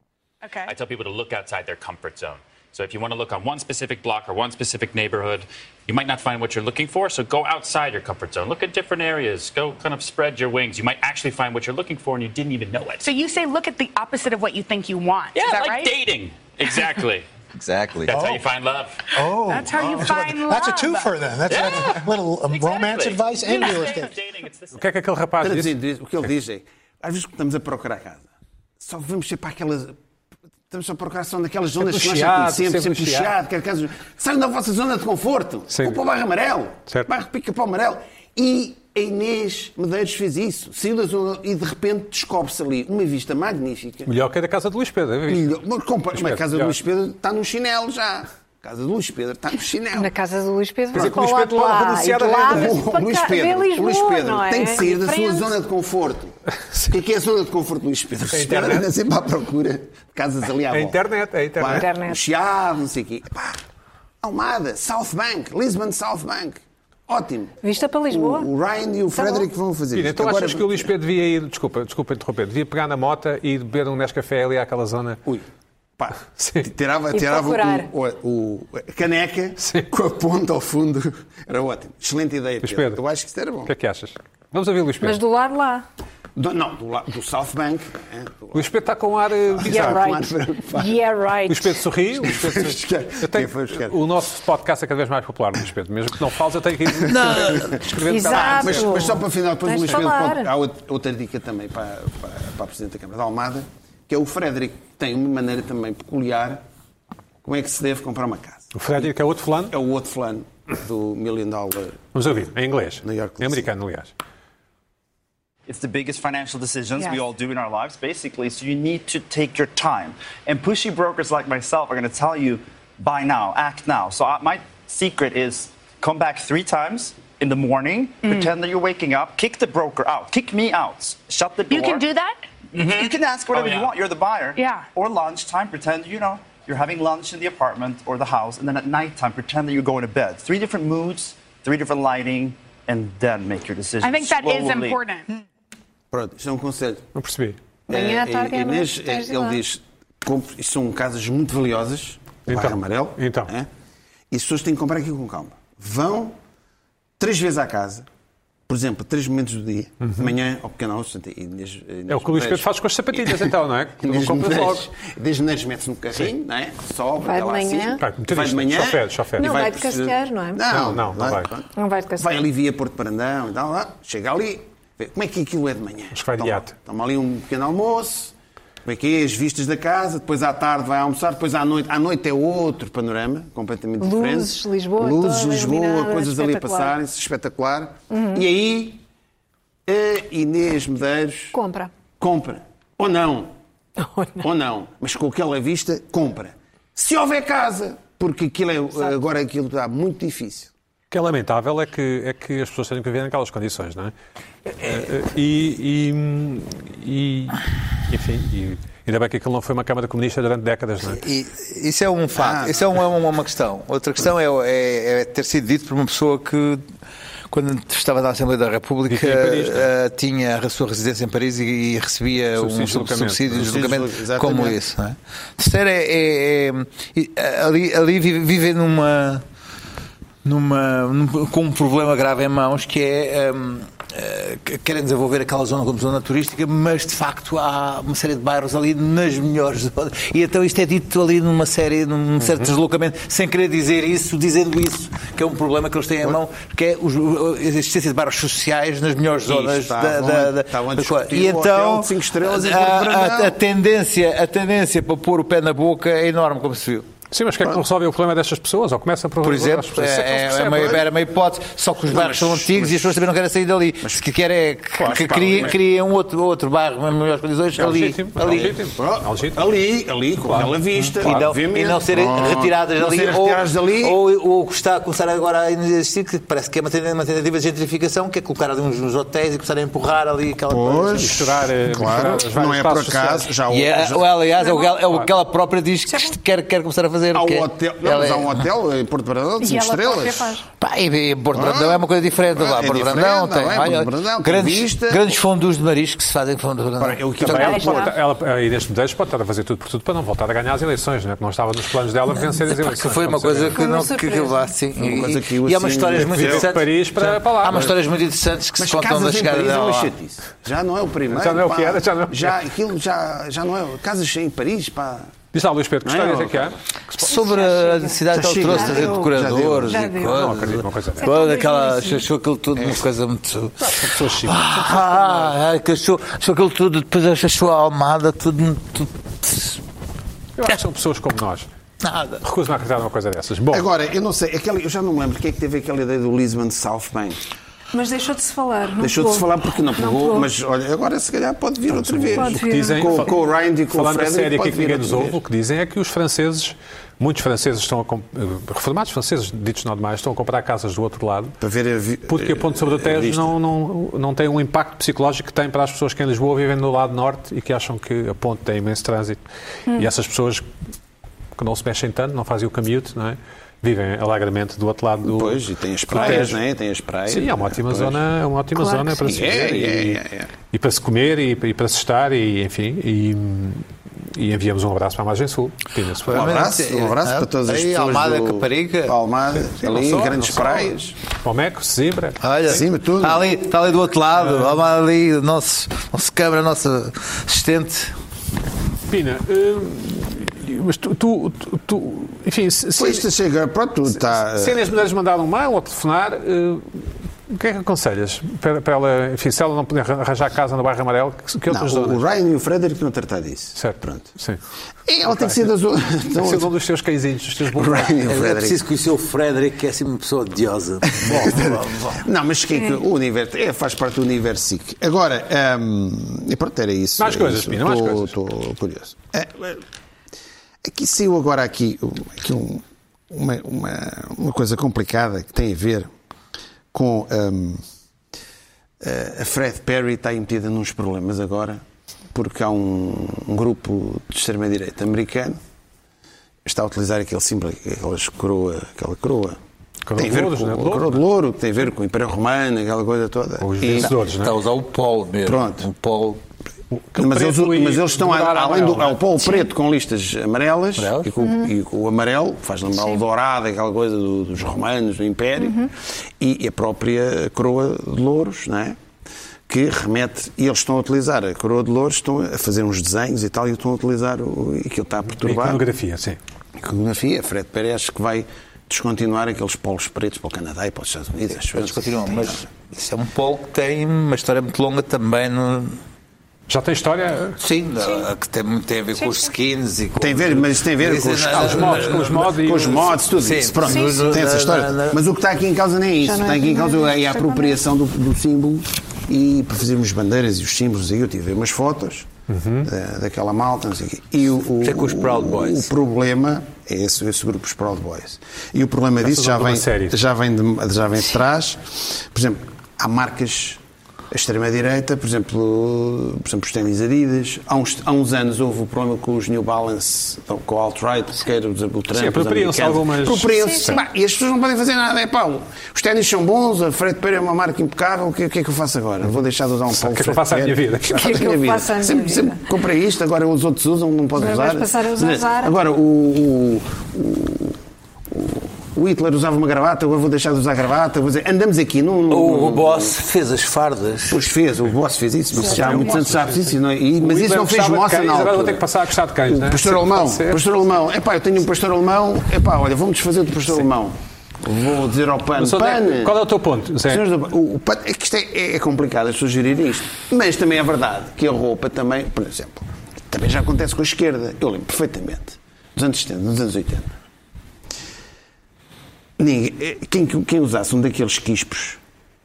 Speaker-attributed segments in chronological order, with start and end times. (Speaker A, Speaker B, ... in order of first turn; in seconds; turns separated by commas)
Speaker A: 0.4-0.7, Speaker B: 0.7-13.1, Speaker A: 13.0-15.9, Speaker B: 15.3-17.3, Speaker C: 17.6-18.1, Speaker B: 18.1-20.3, Speaker D: 18.1-18.4, Speaker D: 19.2-24.1, Speaker A: 19.4-21.2, Speaker B: 21.5-24.8, Speaker A: 23.5-23.8, Speaker E: 24.7-25.8, Speaker F: 25.4-30.0, Speaker F: 30.7-44.1, Speaker E: 31.8-33.3, Speaker E: 35.7-36.0, Speaker E: 44.1-45.5, Speaker F: 45.3-50.1, Speaker E: 46.1-46.8, Speaker G: 49.9-55.5, Speaker E: 50.9-52.8, Speaker F: 52.5-61.0, Speaker E: 58.3-58.9, Speaker E: 60.7-61.9, Speaker F: 61.6-63.6, Speaker G: 61.7-62.2, Speaker F: 64.2-70.9, Speaker G: 67.6-68.5, Speaker G: 69.1-69.5, Speaker E: 69.9-75.2, Speaker F: 76.0-83.7, Speaker E: 76.3-76.7, Speaker G: 77.1-77.9, Speaker E: 82.6-83.0, Speaker E: 83.7-85.2, Speaker G: 85.0-85.9, Speaker F: 86.4-88.7, Speaker E: 88.5-90.1, Speaker F: 89.5-91.0, Speaker G: 89.6-91.8, Speaker E: 91.5-99.0, Speaker F: 92.2-94.0, Speaker C: 97.0-97.9, Speaker G: 98.0-100.5, Speaker F: 98.3-106.6, Speaker F: 107.4-108.7, Speaker E: 108.7-109.7, Speaker F: 109.7-112.4, Speaker E: 112.1-114.1, Speaker F: 113.0-113.7, Speaker H: 115.7-132.1, Speaker A: 131.7-132.5, Speaker H: 132.7-145.0, Speaker B: 133.5-133.9, Speaker A: 134.6-134.9, Speaker A: 144.0-145.3, Speaker F: 146.1-147.1, Speaker E: 147.2-147.6, Speaker F: 147.9-153.7, Speaker G: 147.9-149.6, Speaker E: 152.5-153.5, Speaker F: 154.3-156.4, Speaker F: 157.2-158.1, Speaker F: 158.7-178.3, Speaker E: 162.1-164.9, Speaker G: 167.2-168.0, Speaker E: 168.0-169.6, Speaker G: 169.4-170.6, Speaker E: 170.7-171.5, Speaker G: 171.8-172.3, Speaker E: 176.1-176.7, Speaker F: 178.8-189.0, Speaker G: 184.0-187.0, Speaker G: 188.1-188.4, Speaker F: 189.9-191.6, Speaker G: 191.5-191.9, Speaker F: 192.2-193.5, Speaker F: 194.4-200.7, Speaker E: 201.1-204.1, Speaker E: 204.7-211.2, Speaker C: 211.1-216.8, Speaker F: 212.3-213.0, Speaker C: 217.5-229.4, Speaker E: 219.1-219.9, Speaker E: 222.6-223.8, Speaker F: 223.5-224.8, Speaker C: 230.4-257.1, Speaker E: 242.4-242.7, Speaker F: 249.5-253.6, Speaker E: 257.3-261.0, Speaker C: 259.4-268.8, Speaker F: 262.1-263.2, Speaker E: 265.0-265.7, Speaker F: 265.0-265.8, Speaker E: 267.8-269.6, Speaker F: 268.4-274.2, Speaker C: 271.2-281.5, Speaker F: 280.7-284.3, Speaker E: 281.1-283.5, Speaker C: 283.7-288.6, Speaker G: 284.6-285.0, Speaker G: 286.1-286.4, Speaker F: 287.3-290.6, Speaker G: 289.6-290.7, Speaker C: 290.8-297.8, Speaker F: 291.5-295.4, Speaker F: 297.0-298.1, Speaker E: 297.4-303.8, Speaker G: 297.6-298.1, Speaker C: 302.4-310.1, Speaker G: 303.7-304.8, Speaker F: 305.0-306.7, Speaker E: 306.2-307.9, Speaker F: 308.8-315.3, Speaker E: 311.3-312.6, Speaker E: 315.5-317.4, Speaker F: 316.0-316.7, Speaker C: 317.2-329.8, Speaker G: 317.3-320.5, Speaker F: 318.3-320.1, Speaker E: 320.2-321.3, Speaker G: 321.2-322.3, Speaker E: 323.8-325.6, Speaker E: 330.6-331.7, Speaker C: 332.0-332.4, Speaker E: 332.4-333.9, Speaker F: 333.7-337.4, Speaker G: 337.9-340.5, Speaker F: 339.0-345.4, Speaker E: 341.9-343.4, Speaker G: 342.3-343.4, Speaker E: 343.9-351.6, Speaker F: 351.6-353.6, Speaker E: 352.3-360.7, Speaker E: 361.6-366.6, Speaker F: 365.2-368.2, Speaker E: 367.3-376.7, Speaker G: 368.8-369.3, Speaker F: 369.2-370.5, Speaker C: 376.2-379.1, Speaker F: 376.3-381.1, Speaker E: 379.7-382.4, Speaker C: 382.4-388.1, Speaker F: 382.7-383.5, Speaker E: 389.1-393.3, Speaker F: 393.0-394.9, Speaker E: 394.1-402.2, Speaker F: 401.7-404.3, Speaker E: 403.8-404.6, Speaker F: 405.1-406.7, Speaker E: 405.2-405.7, Speaker E: 406.4-408.2, Speaker F: 407.7-408.8, Speaker C: 408.2-412.2, Speaker F: 411.2-419.8, Speaker E: 411.3-411.5, Speaker E: 417.2-418.3, Speaker F: 420.8-426.1, Speaker F: 426.9-427.8, Speaker F: 429.0-431.8, Speaker F: 432.3-435.6, Speaker F: 436.6-439.6, Speaker E: 440.1-441.2, Speaker F: 440.2-444.1, Speaker E: 443.6-444.6, Speaker C: 443.9-446.4, Speaker F: 445.4-445.9, Speaker E: 446.9-449.3, Speaker F: 447.2-459.0, Speaker C: 451.0-451.3, Speaker G: 451.4-451.7, Speaker G: 455.6-455.9, Speaker F: 459.7-465.9, Speaker E: 465.4-466.4, Speaker F: 466.8-472.6, Speaker C: 471.6-476.0, Speaker E: 476.7-477.6, Speaker C: 477.6-485.2, Speaker G: 478.0-478.3, Speaker G: 479.1-479.5, Speaker F: 480.2-492.3, Speaker E: 481.5-483.2, Speaker G: 483.9-484.2, Speaker G: 486.2-487.8, Speaker E: 492.5-492.9, Speaker F: 492.8-527.8, Speaker C: 494.8-495.9, Speaker E: 499.2-500.2, Speaker E: 512.1-514.0, Speaker G: 513.5-514.0, Speaker E: 519.9-521.4, Speaker G: 521.1-522.6, Speaker G: 524.4-525.7, Speaker F: 528.3-533.2, Speaker C: 532.3-534.4, Speaker F: 534.3-538.9, Speaker E: 535.5-540.6, Speaker F: 539.4-546.4, Speaker E: 545.6-547.2, Speaker F: 547.0-557.2, Speaker F: 559.4-562.0